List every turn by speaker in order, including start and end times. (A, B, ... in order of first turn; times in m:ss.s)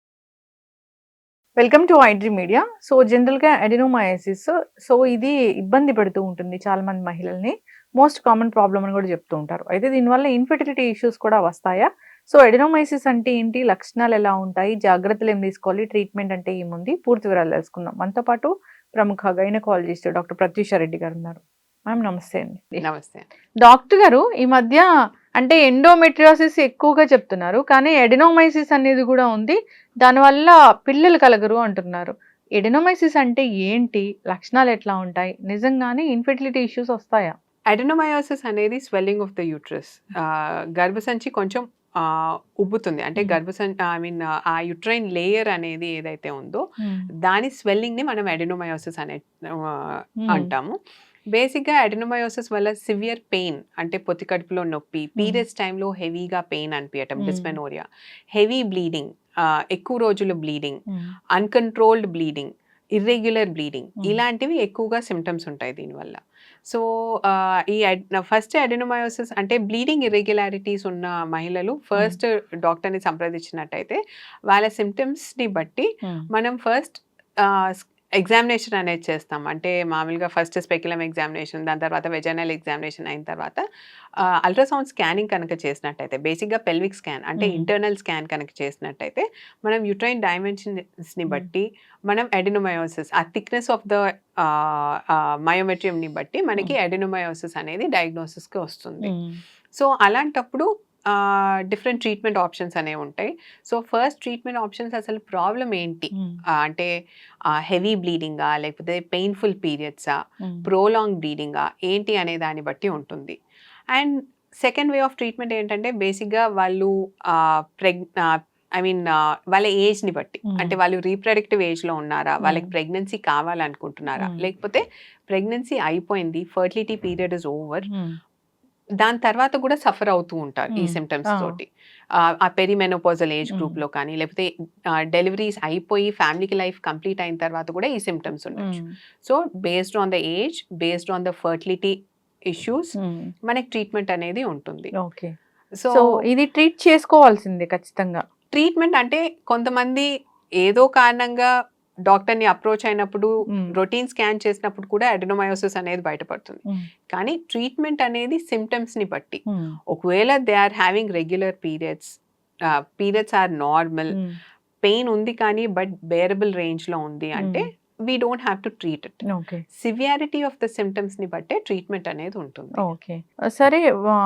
0:01.6-0:22.8 A
0:22.8-0:23.3 B
0:23.7-0:24.8 A
0:25.4-0:37.3 A
0:37.7-0:46.6 B
0:46.8-0:47.1 A
0:47.3-0:50.8 B
0:51.3-1:00.8 B
0:57.2-0:57.6 A
1:01.4-1:23.6 B
1:24.4-1:39.1 B
1:27.4-1:27.7 A
1:39.0-1:39.4 A
1:39.8-1:46.9 B
1:47.6-1:53.4 B
1:53.9-2:07.9 B
2:00.5-2:00.8 A
2:02.4-2:02.7 A
2:07.9-2:08.2 A
2:09.0-2:11.7 B
2:10.8-2:11.6 A
2:12.3-2:14.5 B
2:15.1-2:22.0 B
2:18.6-2:18.9 A
2:22.5-2:22.9 B
2:23.0-2:23.3 A
2:23.5-2:24.9 B
2:25.0-2:25.3 A
2:25.9-2:28.2 A
2:28.5-2:30.1 B
2:30.6-2:31.5 B
2:32.1-2:42.2 B
2:39.5-2:39.8 A
2:43.0-2:44.2 B
2:44.8-2:49.2 B
2:49.3-2:49.6 A
2:49.8-2:52.8 B
2:52.8-2:53.8 A